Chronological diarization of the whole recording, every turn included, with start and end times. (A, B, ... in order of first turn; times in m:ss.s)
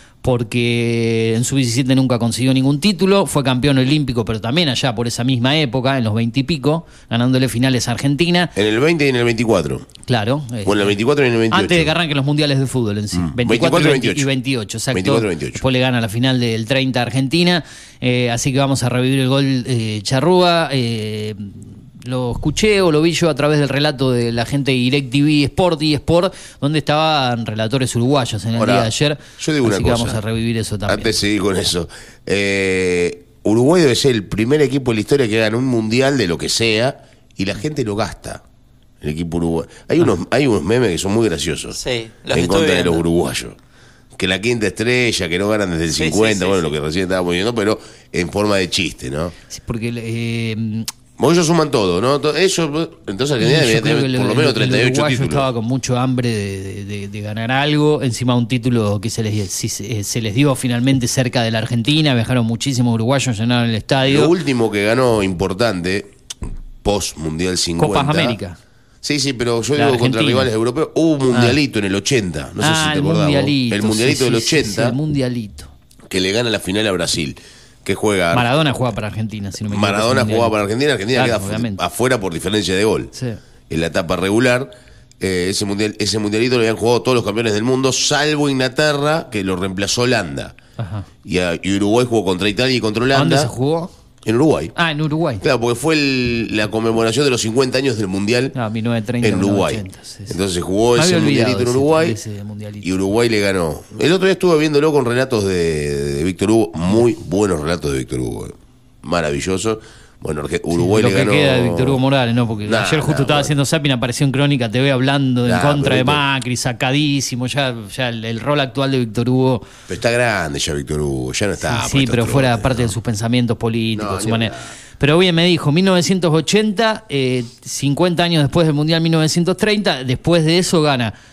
0:00.2-0:08.5 A
0:08.6-0:09.8 B
0:10.1-0:10.9 A
0:10.6-0:11.9 B
0:11.5-0:31.1 A
0:13.1-0:14.3 B
0:14.9-0:15.6 B
0:28.6-0:30.2 B
0:30.9-0:38.4 B
0:39.0-0:41.8 B
0:41.7-0:43.0 C
0:42.3-0:43.6 B
0:44.2-0:49.3 B
0:46.0-0:46.7 C
0:49.5-0:50.9 A
0:51.2-0:55.5 B
0:53.4-1:04.3 A
1:04.0-1:06.1 B
1:06.8-1:08.4 B
1:07.8-1:08.6 A
1:09.0-1:15.0 B
1:09.8-1:10.5 A
1:12.6-1:15.7 A
1:16.1-1:18.5 B
1:18.3-1:20.5 A
1:19.7-1:23.1 B
1:21.1-1:21.8 A
1:23.7-1:30.5 B
1:30.8-1:31.1 A
1:31.2-1:33.5 B
1:33.1-1:33.9 A
1:34.2-1:34.7 B
1:34.8-1:35.4 A
1:35.4-1:38.5 B
1:38.5-1:40.4 A
1:39.2-1:42.2 B
1:41.0-1:42.9 A
1:42.8-1:52.0 B
1:50.8-1:59.7 A
1:52.6-1:53.5 B
1:55.4-1:56.2 B
1:59.9-2:02.9 B
2:01.7-2:11.1 A
2:04.0-2:04.7 B